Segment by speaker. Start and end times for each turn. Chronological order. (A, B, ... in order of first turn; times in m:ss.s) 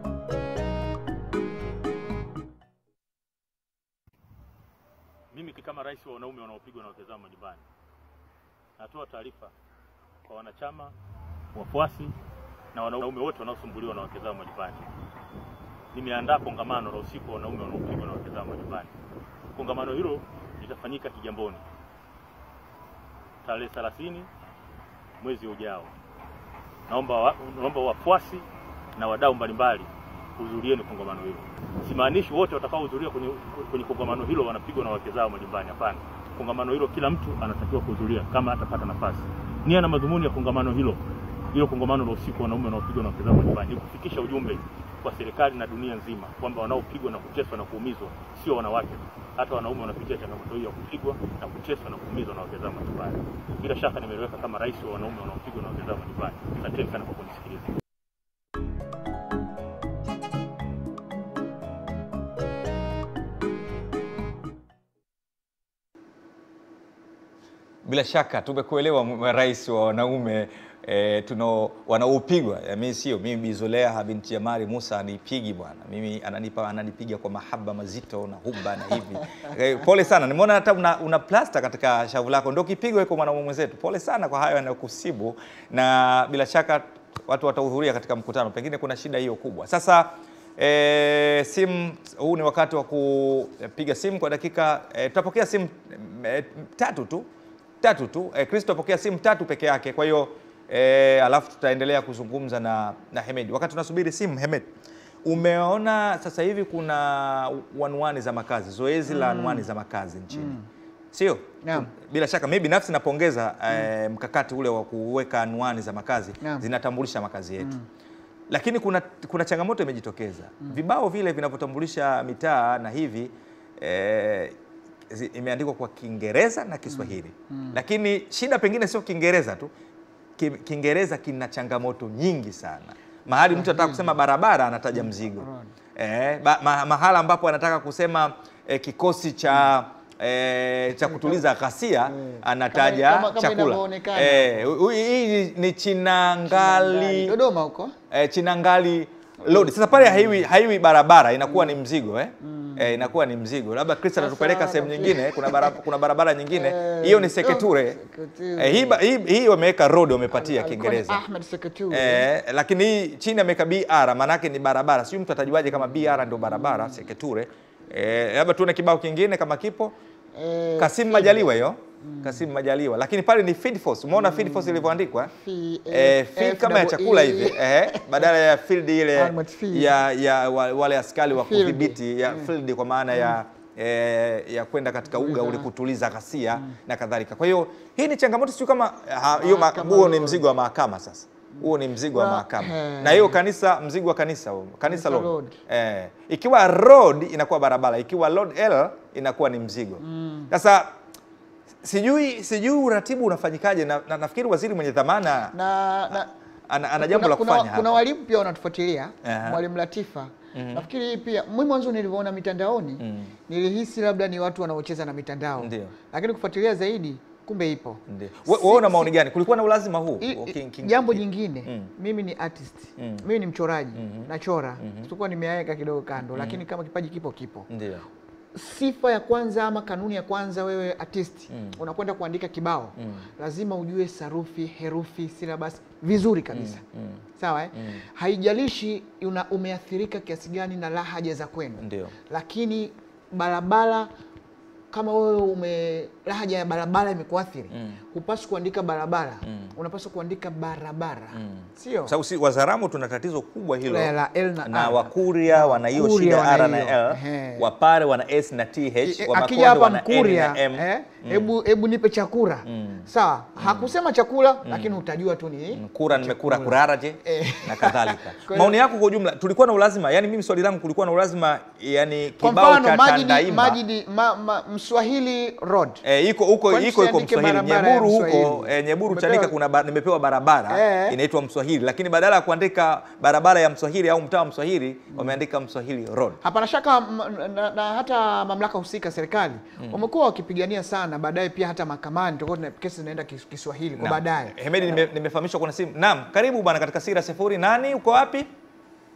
0:05.3-0:07.6 A
0:08.8-0:09.5 A
0:10.2-0:10.9 A
0:11.5-0:12.1 A
0:12.7-0:14.8 A
0:15.9-0:18.9 A
0:19.5-0:21.6 A
0:23.4-0:24.3 A
0:25.2-0:25.9 A
0:26.9-0:41.0 A
0:41.5-0:57.7 A
1:07.8-1:37.2 B
1:37.8-1:44.7 B
1:45.2-1:50.6 B
1:49.1-1:49.6 C
1:50.3-1:50.6 C
1:51.1-1:57.7 B
1:51.6-1:51.9 C
1:57.6-1:57.8 C
1:58.5-2:04.5 B
2:05.1-2:09.7 B
2:06.9-2:07.8 C
2:10.4-2:27.4 B
2:13.5-2:14.1 C
2:14.9-2:15.7 C
2:21.0-2:21.4 C
2:22.1-2:24.7 C
2:26.5-2:27.9 C
2:28.1-2:38.0 B
2:29.4-2:30.4 C
2:31.4-2:31.8 C
2:32.4-2:33.1 C
2:34.2-2:35.8 C
2:36.5-2:39.0 C
2:38.6-2:41.2 B
2:40.3-2:42.2 C
2:41.9-2:49.9 B
2:45.7-2:47.0 C
2:50.3-2:51.4 C
2:50.8-2:55.3 B
2:52.0-2:52.5 C
2:54.1-2:58.2 C
2:55.9-3:20.9 B
2:59.2-2:59.9 C
3:01.3-3:02.5 C
3:05.1-3:05.6 C
3:09.4-3:10.4 C
3:11.6-3:13.4 C
3:14.8-3:15.6 C
3:20.0-3:20.5 C
3:21.8-3:25.5 B
3:25.5-3:26.3 C
3:26.1-3:28.0 B
3:27.0-3:39.1 C
3:29.2-3:29.6 B
3:30.5-3:30.8 B
3:33.0-3:33.3 B
3:35.6-3:35.9 B
3:38.1-3:41.9 B
3:40.2-3:47.7 C
3:43.0-3:43.2 B
3:43.9-3:44.3 B
3:44.8-3:45.1 B
3:46.3-3:46.6 B
3:47.7-3:48.0 B
3:48.5-3:56.8 C
3:51.5-3:51.8 B
3:53.0-3:53.3 B
3:56.5-3:57.2 B
3:57.4-4:04.1 C
3:57.7-3:58.0 B
4:01.8-4:02.1 B
4:04.9-4:12.1 C
4:07.7-4:08.0 B
4:09.4-4:09.7 B
4:11.3-4:21.5 B
4:13.9-4:17.7 C
4:19.0-4:28.8 C
4:22.6-4:23.9 B
4:24.6-4:25.0 B
4:25.7-4:33.8 B
4:32.4-4:36.0 C
4:36.0-4:46.4 B
4:36.7-4:39.5 C
4:40.7-4:41.2 C
4:45.1-4:45.4 C
4:46.4-4:54.5 C
4:54.0-4:58.5 B